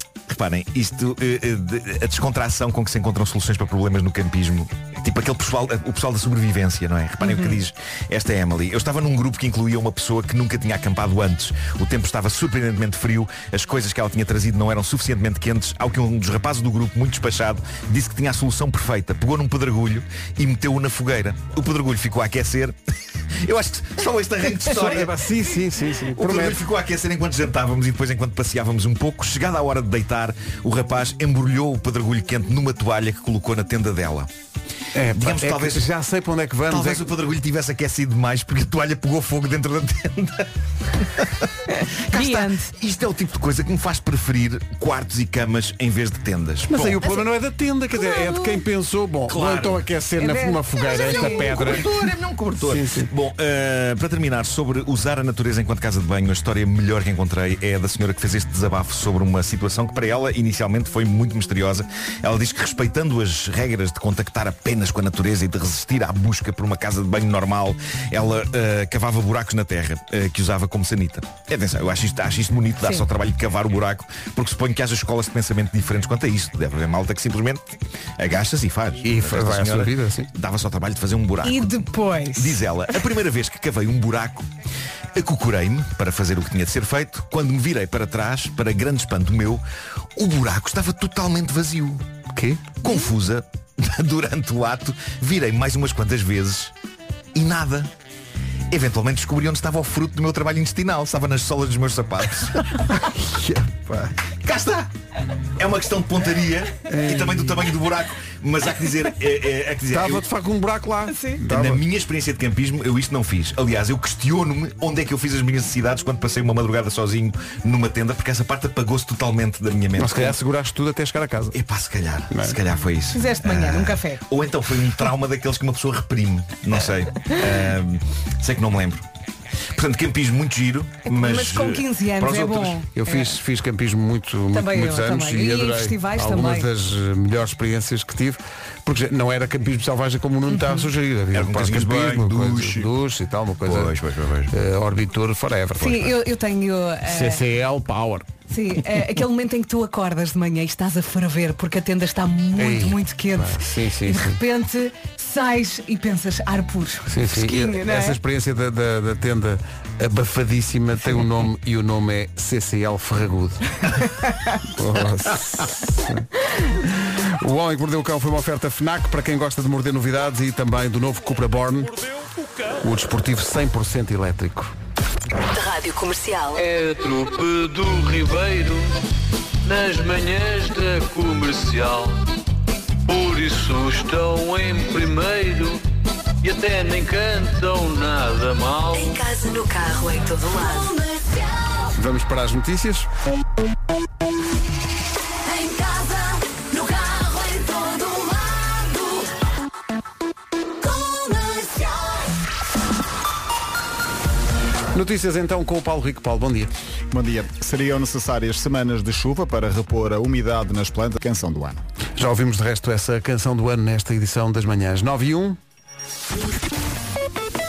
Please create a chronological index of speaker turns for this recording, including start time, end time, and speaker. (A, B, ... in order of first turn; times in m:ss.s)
0:00.3-0:22.8 A
0:07.2-0:07.6 B
0:23.4-0:25.1 A
0:24.6-0:26.6 C
0:26.2-0:34.3 A
0:34.9-0:37.1 C
0:35.2-0:35.9 A
0:36.7-0:41.5 A
0:41.8-0:42.7 B
0:42.1-0:47.0 A
0:46.7-0:51.9 C
0:47.0-0:47.3 B
0:47.9-0:48.6 B
0:49.3-0:49.8 A
0:50.2-0:51.7 B
0:50.8-1:21.8 A
0:52.6-0:53.1 C
1:19.0-1:20.3 C
1:21.4-1:22.6 B
1:22.4-1:24.5 A
1:25.2-1:29.6 A
1:30.2-1:32.0 A
1:32.3-1:32.7 C
1:32.8-1:36.7 A
1:37.4-1:37.9 A
1:38.7-1:42.9 A
1:42.9-1:44.2 C
1:44.4-1:44.9 A
1:45.6-1:50.2 A
1:46.9-1:47.8 C
1:49.9-1:51.8 C
1:51.1-1:51.4 B
1:51.5-2:00.4 A
2:00.0-2:01.6 C
2:01.5-2:09.0 A
2:02.3-2:02.6 C
2:03.1-2:04.2 B
2:09.7-2:12.8 A
2:11.1-2:13.4 B
2:13.0-2:23.9 C
2:14.5-2:16.7 B
2:20.5-2:20.9 B
2:21.3-2:22.9 A
2:23.6-2:24.5 A
2:24.5-2:26.1 C
2:25.8-2:27.4 B
2:27.1-2:28.3 C
2:28.5-2:38.2 B
2:32.6-2:34.4 C
2:37.1-2:43.8 C
2:44.7-2:46.3 C
2:46.8-2:52.0 C
2:52.8-2:54.7 C
2:55.5-2:56.6 D
2:56.6-2:59.0 E
2:59.6-3:02.2 E
3:03.1-3:05.8 E
3:06.4-3:09.2 E
3:08.9-3:11.9 D
3:12.0-3:13.1 C
3:15.4-3:19.3 D
3:20.8-3:22.2 D
3:24.9-3:26.7 C
3:27.1-3:31.8 F
3:32.2-3:35.6 C